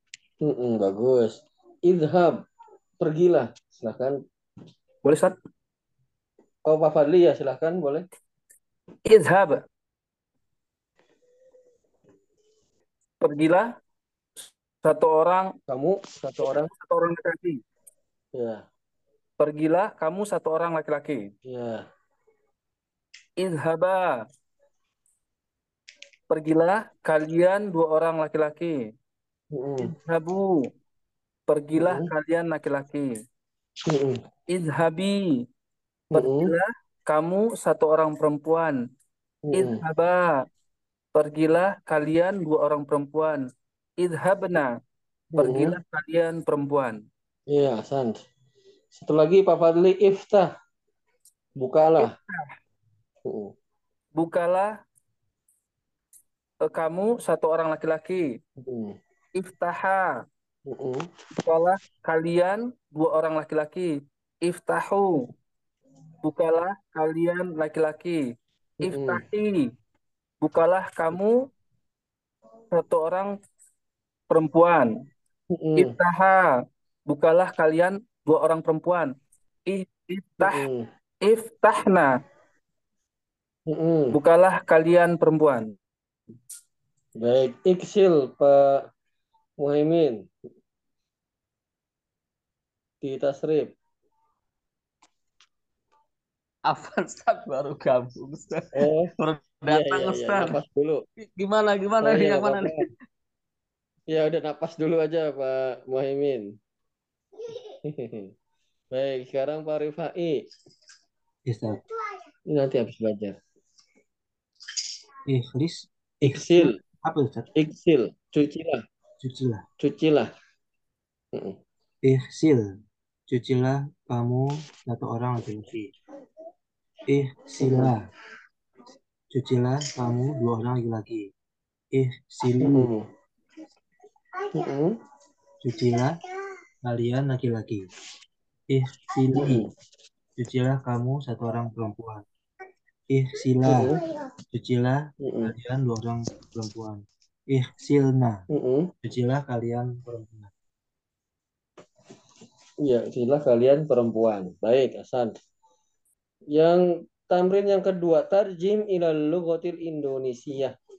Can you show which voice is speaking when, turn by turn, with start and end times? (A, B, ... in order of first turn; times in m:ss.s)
0:00.4-0:02.4 A
0:03.0-0:04.2 A
0:05.0-0:05.3 B
0:06.6-0:08.0 A
0:09.1-0:09.6 B
0:13.2-0:13.7 B
0:14.8-0:15.5 B
0:15.7-0:16.7 A
0:16.7-0:17.6 B
0:18.3-0:18.6 A
0:19.4-0:21.3 B
0:21.5-0:21.8 A
0:23.4-0:24.1 B
0:26.3-0:28.8 B
0:29.5-0:29.9 A
0:30.0-0:30.6 B
0:31.5-0:33.1 B
0:31.7-0:32.1 A
0:33.9-0:34.2 A
0:34.5-0:35.3 B
0:36.1-0:36.5 A
0:36.2-0:38.8 B
0:39.4-0:39.8 A
0:39.6-0:40.3 B
0:41.1-0:43.4 B
0:44.0-0:44.7 B
0:45.3-0:45.8 A
0:45.4-0:47.0 B
0:47.5-0:48.2 A
0:48.9-0:50.5 A
0:51.6-0:52.1 A
0:52.0-0:52.5 B
0:53.2-0:53.5 A
0:54.2-0:54.7 B
0:56.7-0:58.3 B
0:58.6-0:59.0 A
0:59.4-1:00.1 B
1:00.7-1:01.0 A
1:01.4-1:03.9 B
1:04.4-1:05.1 B
1:06.2-1:08.2 B
1:08.8-1:09.2 A
1:08.9-1:09.6 B
1:10.4-1:11.4 B
1:12.7-1:13.3 B
1:14.3-1:14.9 B
1:15.5-1:16.0 A
1:15.9-1:16.5 B
1:17.1-1:19.1 B
1:19.7-1:20.6 B
1:20.4-1:20.8 A
1:21.2-1:22.1 B
1:23.7-1:24.2 A
1:24.2-1:25.7 B
1:27.2-1:28.8 A
1:29.6-1:30.3 A
1:33.0-1:33.7 A
1:36.7-1:40.6 C
1:38.7-1:39.1 A
1:39.7-1:41.0 A
1:41.2-1:42.8 C
1:42.0-1:42.8 A
1:44.1-1:46.5 A
1:47.8-1:48.3 A
1:48.9-1:50.4 A
1:51.5-1:51.8 D
1:52.5-1:53.4 A
1:55.3-1:57.5 D
1:56.2-1:56.7 A
1:57.6-1:58.8 A
1:59.2-1:59.6 D
1:59.8-2:00.3 A
2:02.0-2:02.7 D
2:03.3-2:05.9 D
2:07.1-2:08.1 D
2:07.6-2:07.9 A
2:09.3-2:11.3 D
2:11.9-2:12.9 D
2:12.6-2:13.0 A
2:14.5-2:14.9 A
2:15.6-2:16.2 D
2:16.8-2:17.9 D
2:18.7-2:19.7 D
2:19.3-2:19.7 A
2:20.4-2:22.2 D
2:23.1-2:24.0 D
2:23.6-2:24.0 A
2:24.5-2:28.4 D
2:25.2-2:25.5 A
2:28.5-2:28.9 A
2:29.0-2:30.5 D
2:32.8-2:35.3 A
2:36.5-2:40.7 A